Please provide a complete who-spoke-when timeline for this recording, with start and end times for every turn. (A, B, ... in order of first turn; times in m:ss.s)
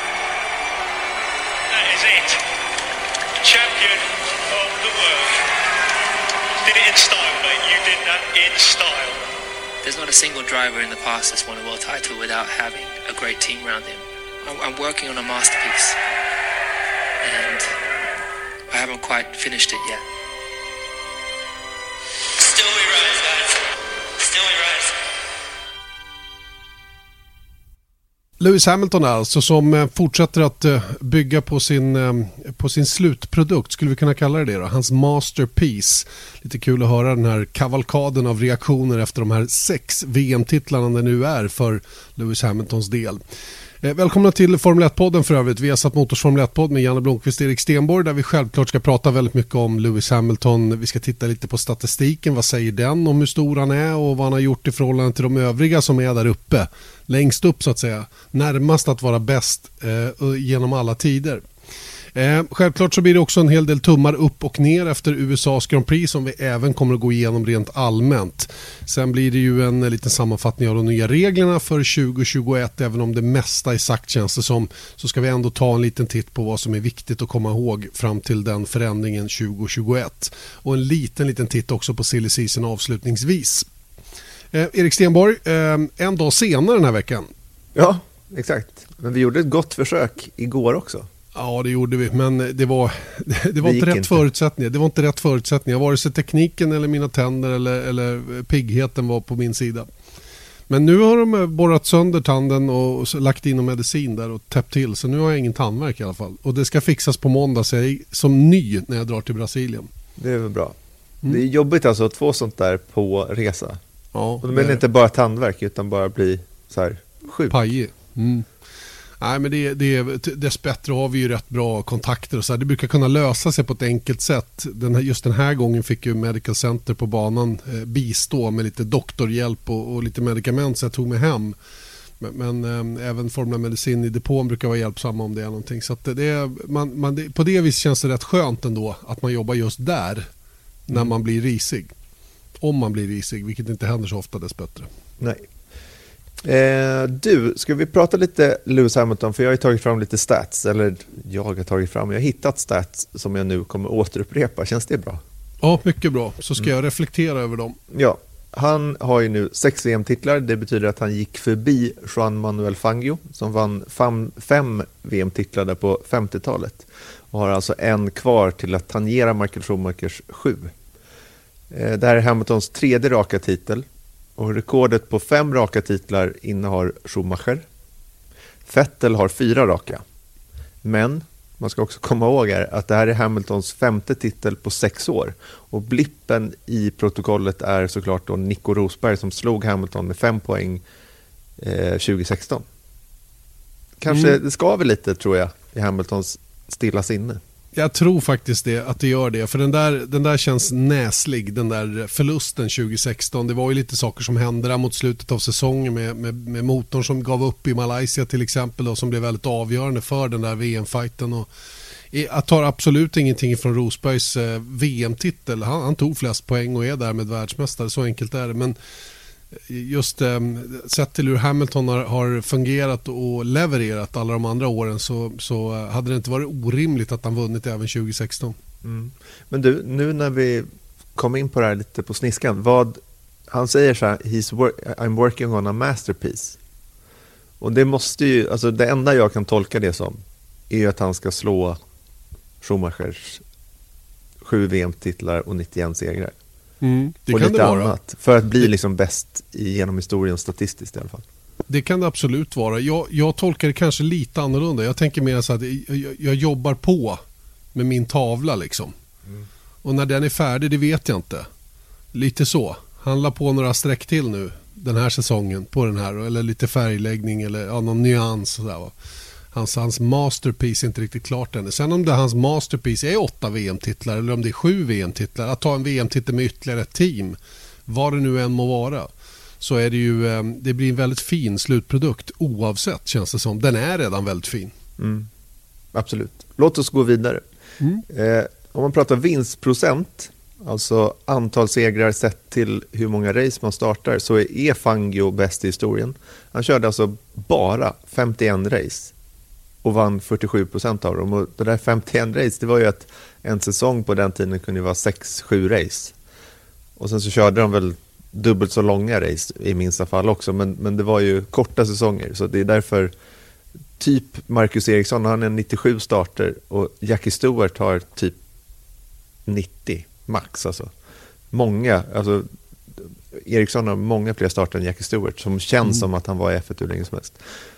0:01.7-0:02.4 A
0:03.4-0:05.4 A
0:06.6-0:09.2 A
0:09.8-0:16.0 B
0:17.2-0:17.7 B
0:18.7-0:20.0 B
0:22.4-0:23.6 B
0:24.2-0:24.9 B
0:28.4-0:43.2 C
0:43.8-1:01.4 C
1:02.1-1:23.7 C
1:24.5-1:27.3 C
1:27.7-1:31.1 D
1:31.3-1:39.9 C
1:33.6-1:34.2 D
1:40.7-1:49.9 C
1:50.2-1:53.8 D
1:54.1-1:54.8 C
1:54.4-1:57.6 D
1:57.5-1:58.5 C
1:59.2-2:11.6 C
2:12.2-2:20.3 C
2:20.9-2:21.9 C
2:22.6-2:24.9 C
2:26.4-2:35.2 D
2:35.6-2:37.8 C
2:37.9-2:50.7 D
2:51.7-2:57.6 D
2:58.6-3:00.0 D
3:00.8-3:10.8 D
3:11.6-3:12.6 D
3:14.0-3:17.4 D
3:14.1-3:14.4 C
3:17.7-3:31.5 C
3:32.1-3:38.8 C
3:39.6-3:48.6 C
3:48.8-3:56.6 D
3:57.6-4:01.8 D
4:02.6-4:03.4 D
4:04.4-4:06.3 D
4:06.8-4:07.9 C
4:07.3-4:11.2 D
4:11.7-4:17.2 C
4:17.7-4:18.9 C
4:19.8-4:21.5 C
4:22.1-4:28.9 C
4:29.5-4:39.1 C
4:39.6-4:44.7 C
4:45.0-4:45.3 D
4:45.9-4:47.4 D
4:48.1-4:59.1 D
4:59.8-5:06.1 D
5:07.0-5:13.1 D
5:14.0-5:18.4 D
5:19.4-5:20.9 D
5:21.5-5:27.4 D